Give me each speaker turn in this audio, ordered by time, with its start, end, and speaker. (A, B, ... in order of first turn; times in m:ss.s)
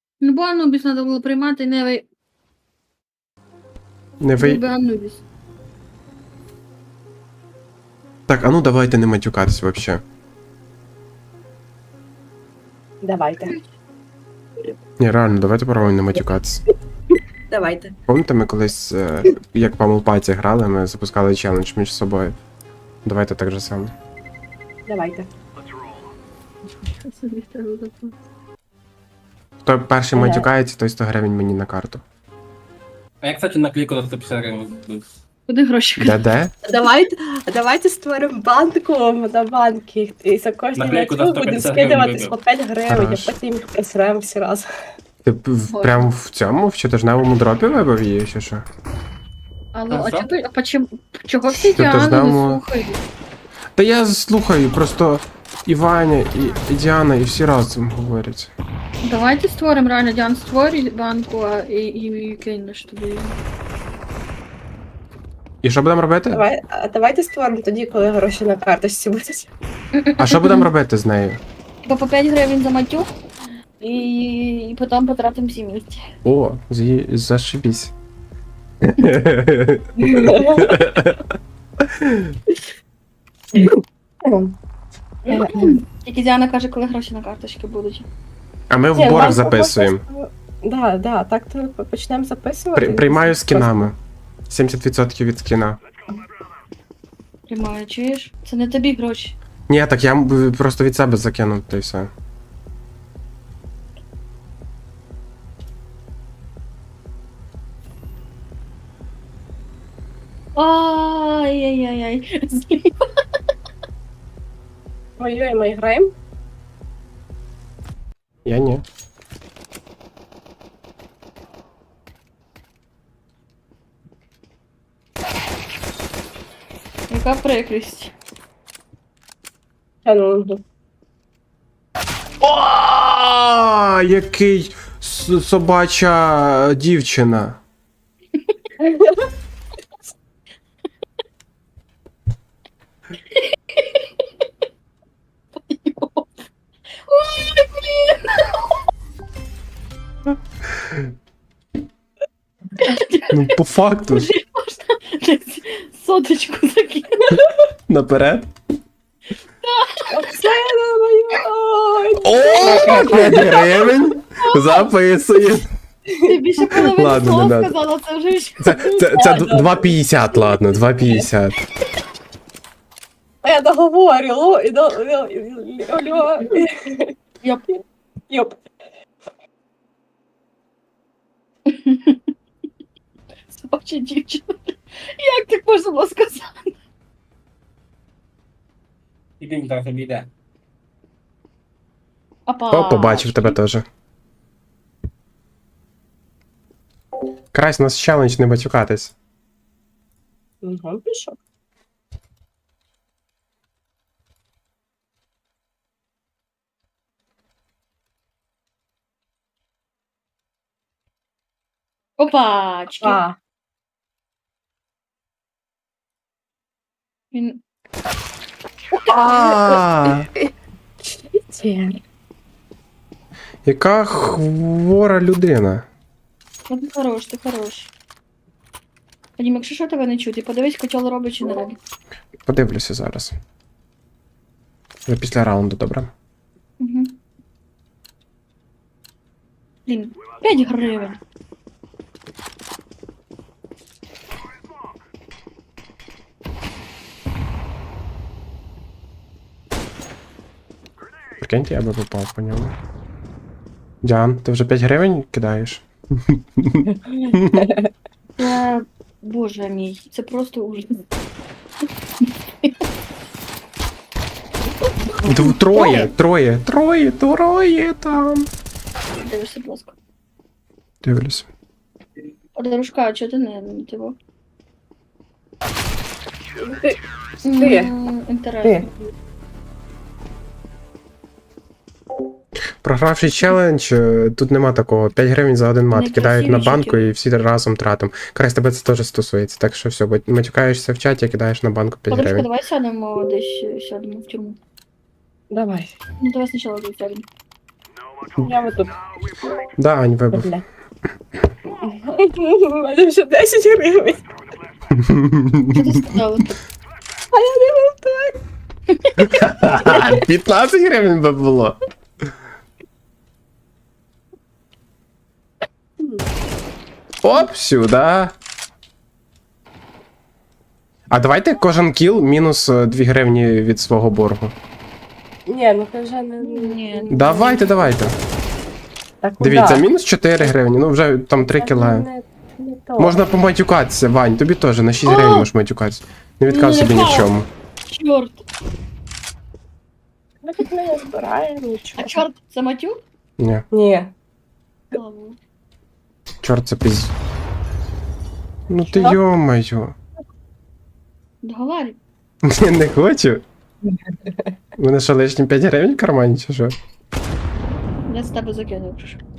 0:00.2-0:02.0 A
0:04.2-0:04.6 B
0:04.4-0:05.2 A
0:08.3-0:10.0 B
0:13.0-0:13.5 C
0:15.0-0:16.6 B
0:17.5-0:18.0 C
0:18.1-0:22.4 B
0:23.0-0:23.9 B
0:24.8-0:25.3 C
0:27.0-0:28.2 A
0:29.6-0:32.0 B
0:30.1-0:30.5 C
0:33.2-0:35.0 D
0:35.5-0:36.2 A
0:36.0-0:36.5 B
0:36.6-0:44.7 C
0:40.8-0:42.4 D
0:42.9-0:43.3 B
0:45.2-0:48.6 B
0:45.7-0:46.1 A
0:49.7-0:53.0 A
0:49.9-0:50.3 D
0:51.5-0:52.6 B
0:53.7-0:58.5 B
0:59.0-1:03.4 A
1:05.6-1:06.4 B
1:06.3-1:09.5 C
1:10.0-1:10.7 A
1:10.2-1:11.4 B
1:11.8-1:13.1 A
1:13.8-1:16.1 A
1:16.2-1:17.9 B
1:18.8-1:22.4 B
1:20.0-1:20.8 C
1:23.5-1:24.5 C
1:25.2-1:28.1 A
1:25.3-1:25.8 C
1:28.7-1:30.0 B
1:28.9-1:33.9 C
1:32.7-1:34.0 B
1:34.5-1:35.8 B
1:37.5-1:39.4 A
1:39.7-1:42.1 B
1:50.6-1:53.1 A
1:55.2-1:56.1 C
1:58.4-1:58.8 B
2:07.1-2:08.1 A
2:10.0-2:10.6 C
2:12.4-2:17.6 B
2:18.8-2:19.2 C
2:23.3-2:24.1 A
2:25.7-2:26.3 A
2:27.1-2:28.8 A
2:30.8-2:31.1 B
2:32.8-2:33.6 A
2:33.3-2:34.3 B
2:34.1-2:37.4 A
2:37.9-2:38.5 B
2:39.6-2:40.7 A
2:40.1-2:43.8 C
2:42.2-2:45.7 B
2:42.6-2:44.9 A
2:46.2-2:48.9 A
2:46.7-2:47.7 B
2:48.6-2:51.6 B
2:48.7-2:50.0 C
2:53.4-2:57.1 C
2:57.4-2:57.6 A
2:58.3-2:58.6 C
3:01.7-3:02.3 A
3:03.5-3:06.8 A
3:09.4-3:10.3 D
3:12.5-3:13.6 A
3:12.7-3:13.8 B
3:17.5-3:19.1 B
3:20.6-3:21.4 C
3:32.2-3:33.2 A
3:33.0-3:33.4 C
3:37.3-3:37.6 A
3:38.9-3:39.5 A
3:39.1-3:40.3 B
3:40.0-3:42.0 C
3:43.6-3:45.8 B
3:46.7-3:47.9 A
3:49.4-3:51.8 A
3:52.4-3:53.4 B
3:55.0-3:56.1 B
3:56.8-3:57.2 A
3:59.9-4:01.2 A
4:11.4-4:12.8 B
4:14.0-4:17.7 B
4:16.8-4:17.9 C
4:18.4-4:21.0 A
4:22.2-4:22.7 A
4:25.2-4:26.1 A
4:25.2-4:28.5 B
4:29.2-4:30.0 A
4:31.0-4:31.5 B
4:32.5-4:34.2 A
4:36.6-4:37.0 C
4:37.4-4:38.9 A
4:37.5-4:37.9 C
4:38.6-4:38.9 C
4:42.8-4:52.5 B
4:45.9-4:47.1 A
4:52.1-4:54.6 A
4:55.5-4:56.0 C
4:56.2-4:57.3 A
4:58.4-4:59.0 C
4:59.8-5:00.5 B
5:00.3-5:00.6 C
5:01.8-5:04.3 C
5:04.9-5:06.2 B
5:05.7-5:06.5 A
5:07.3-5:08.4 C
5:09.2-5:11.8 B
5:09.7-5:10.2 C
5:16.0-5:16.3 C
5:17.2-5:18.3 B
5:21.1-5:24.5 B
5:25.4-5:27.6 C
5:26.4-5:27.9 A
5:27.1-5:28.2 B
5:29.2-5:29.9 C
5:29.4-5:32.1 B
5:31.4-5:33.2 C
5:33.0-5:37.5 B
5:35.0-5:35.5 A
5:36.5-5:37.3 A
5:37.9-5:38.4 A
5:40.4-5:42.2 C
5:42.0-5:43.0 A
5:43.4-5:43.6 B
5:43.7-5:44.1 C
5:44.9-5:45.4 A
5:46.4-5:47.1 B
5:48.7-5:50.0 B
5:51.4-5:52.0 A
5:52.4-5:53.4 B
5:53.9-5:54.5 C
5:54.8-5:56.8 B
5:58.1-5:59.2 A